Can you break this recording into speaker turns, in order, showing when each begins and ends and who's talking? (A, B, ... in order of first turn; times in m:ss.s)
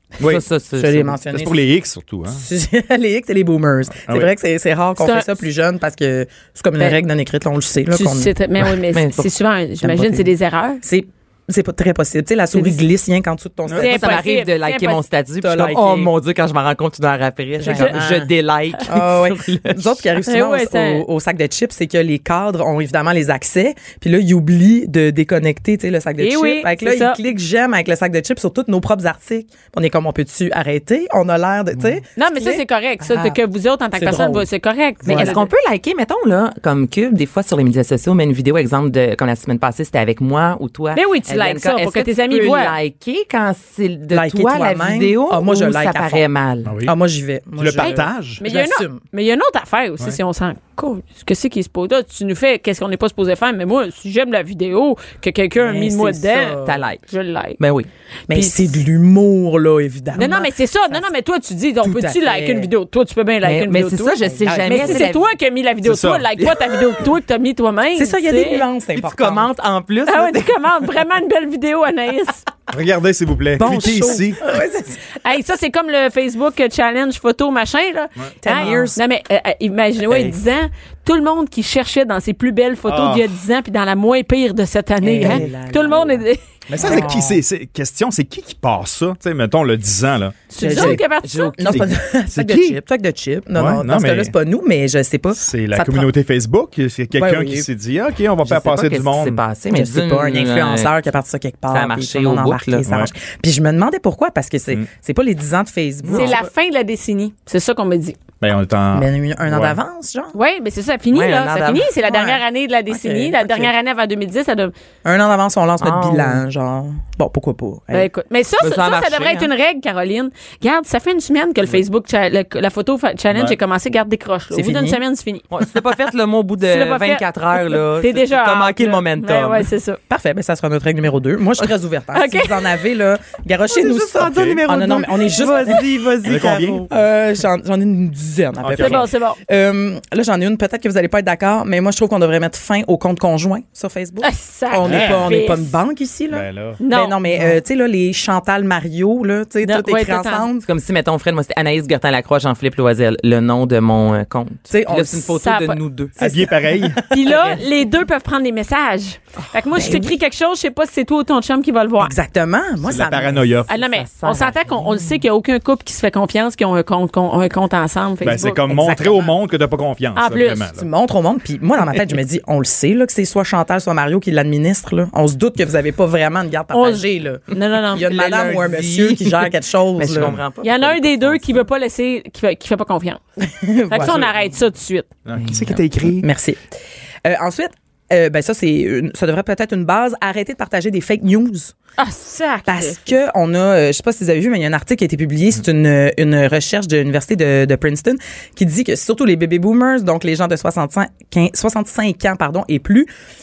0:00.2-0:01.2 A
0:00.8-0:01.6 B
0:01.3-0:02.4 C
0:02.3-0:08.3 B
0:05.0-0:05.5 D
0:07.9-0:10.8 D
0:08.9-0:09.3 A
0:09.8-0:10.3 A
0:10.8-0:14.1 B
0:12.5-0:12.8 D
0:13.8-0:20.0 A
0:13.8-0:15.0 D
0:15.4-0:16.1 B
0:17.6-0:18.3 B
0:17.6-0:18.0 D
0:18.8-0:33.4 B
0:20.3-0:21.0 D
0:26.2-0:27.2 D
0:32.2-0:35.5 D
0:33.9-0:34.4 B
0:35.0-0:35.4 B
0:35.0-0:46.7 A
0:40.9-0:42.7 D
0:44.1-0:46.3 B
0:46.6-0:46.9 C
0:46.8-0:49.0 B
0:47.6-0:48.4 C
0:47.8-0:57.6 D
0:55.6-0:56.8 B
0:56.6-0:57.0 A
0:57.6-0:57.9 A
0:58.3-1:01.0 B
0:58.3-0:58.7 D
1:00.1-1:04.2 D
1:01.8-1:02.7 B
1:03.4-1:05.3 A
1:04.2-1:05.1 B
1:04.7-1:08.6 D
1:05.8-1:06.3 C
1:06.4-1:07.0 A
1:07.9-1:09.5 B
1:08.9-1:10.5 A
1:10.1-1:12.4 D
1:12.7-1:14.4 C
1:13.6-1:15.0 B
1:15.2-1:27.0 D
1:18.2-1:18.8 C
1:18.4-1:19.0 B
1:22.9-1:23.2 C
1:25.0-1:27.4 B
1:26.7-1:30.8 C
1:30.5-1:31.7 D
1:30.6-1:31.0 B
1:30.8-1:31.9 A
1:31.6-1:36.1 B
1:32.3-1:32.8 C
1:33.6-1:34.3 C
1:35.4-1:39.4 C
1:37.1-1:37.6 B
1:38.4-1:40.9 A
1:39.7-1:46.5 B
1:41.7-1:42.8 A
1:42.8-1:43.1 C
1:46.0-1:46.4 A
1:46.1-1:48.2 D
1:48.4-1:49.8 C
1:48.9-1:50.3 B
1:50.3-1:54.7 D
1:51.1-1:51.9 A
1:52.0-1:53.7 B
1:55.0-1:58.1 B
1:55.8-1:56.4 A
1:57.9-2:05.5 D
1:58.6-1:59.5 A
2:03.3-2:03.6 C
2:04.5-2:05.0 B
2:05.5-2:09.7 A
2:06.6-2:10.0 D
2:10.1-2:30.7 B
2:12.1-2:12.6 D
2:13.7-2:16.9 A
2:14.2-2:14.6 C
2:16.2-2:16.9 C
2:18.6-2:19.0 C
2:18.8-2:19.4 D
2:24.2-2:25.8 D
2:24.8-2:25.3 C
2:26.3-2:26.8 C
2:26.8-2:27.2 D
2:29.6-2:30.5 D
2:30.6-2:36.3 A
2:34.7-2:35.4 B
2:35.4-2:35.8 D
2:36.2-2:37.5 B
2:36.2-2:37.0 C
2:37.1-2:42.1 D
2:37.3-2:37.6 A
2:39.7-2:40.2 B
2:42.0-2:43.5 B
2:42.8-2:43.7 C
2:43.7-2:48.7 D
2:43.7-2:44.9 A
2:48.2-2:50.8 C
2:48.7-2:49.3 B
2:50.2-2:50.7 D
2:50.7-3:00.4 B
2:56.7-2:58.1 D
2:58.0-3:01.6 A
3:00.6-3:03.2 D
3:03.6-3:04.3 B
3:03.9-3:05.1 D
3:05.3-3:06.3 C
3:05.4-3:05.8 A
3:06.0-3:06.6 B
3:07.2-3:11.7 B
3:12.0-3:13.1 D
3:12.6-3:23.1 B